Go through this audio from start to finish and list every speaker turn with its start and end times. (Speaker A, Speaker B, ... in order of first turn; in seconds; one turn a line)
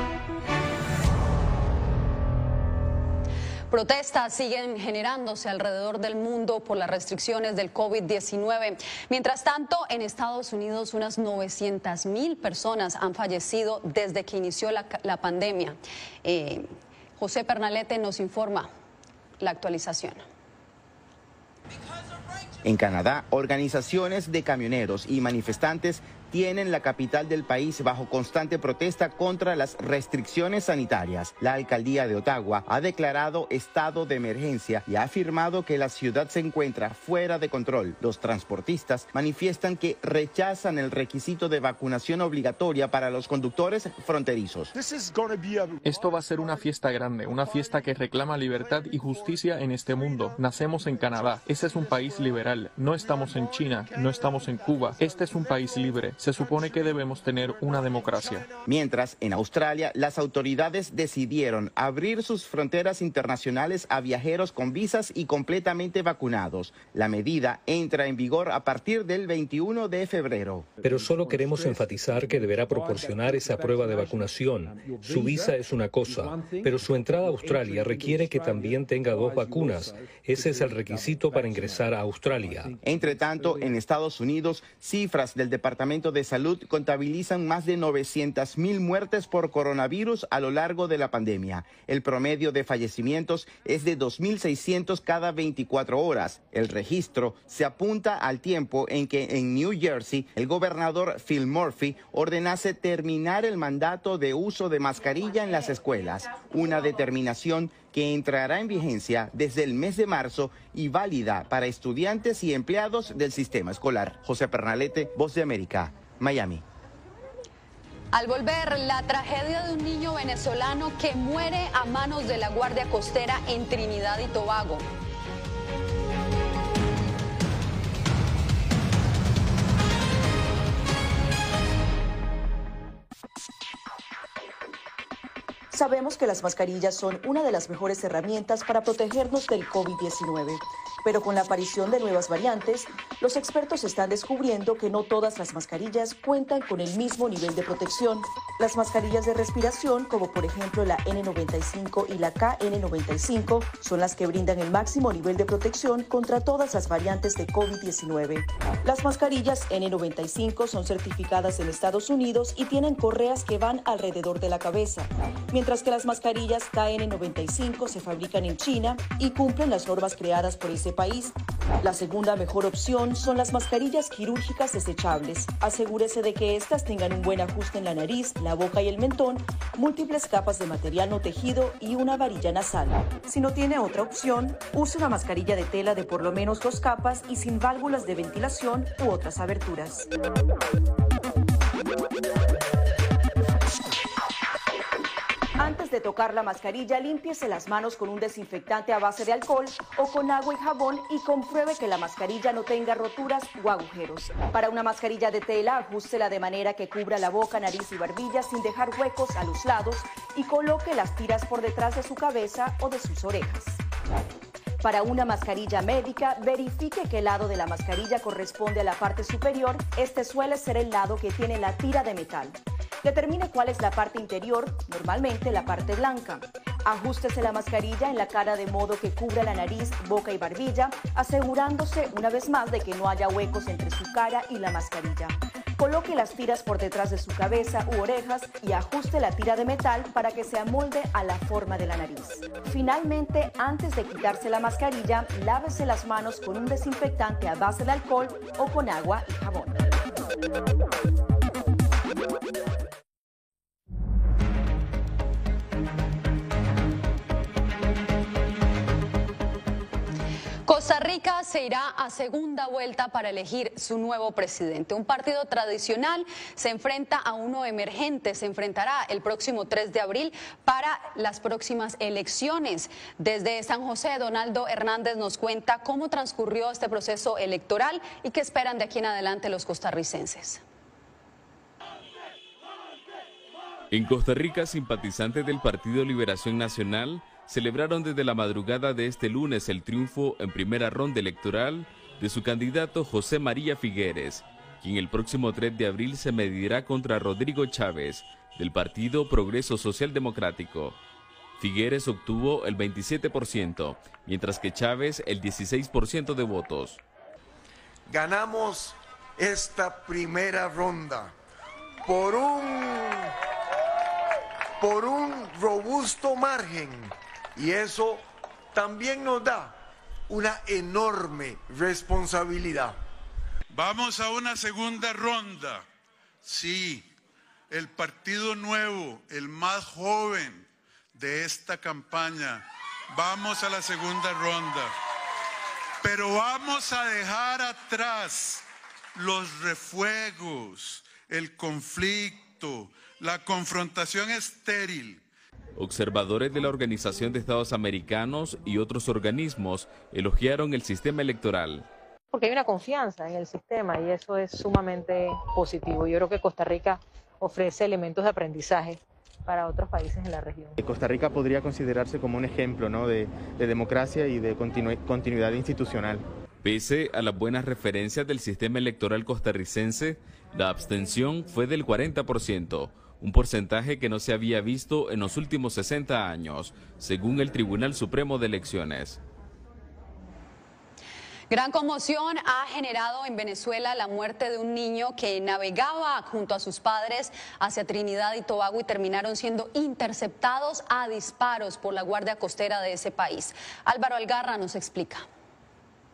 Speaker A: 3.7-18.7
Speaker A: 19.4-20.2
Speaker B: 22.6-44.7
Speaker C: 45.8-58.5
Speaker B: 58.6-70.7
Speaker D: 70.7-82.8
Speaker B: 82.8-116.6
Speaker A: 118.1-124.8
Speaker E: 135.7-190.1
Speaker E: 195.6-213.8
Speaker E: 214.8-249.8
Speaker A: 260.6-280.6
Speaker F: 283.9-301.0
Speaker F: 301.6-307.0
Speaker G: 308.1-311.3
Speaker G: 312.1-313.3
Speaker G: 314.8-323.0
Speaker H: 323.7-325.8
Speaker H: 326.4-327.1
Speaker H: 327.7-334.9
Speaker H: 336.0-338.6
Speaker H: 339.1-345.2
Speaker F: 345.8-351.9
Speaker I: 352.3-360.8
Speaker J: 360.8-366.2
Speaker F: 366.6-379.2
Speaker A: 381.5-395.2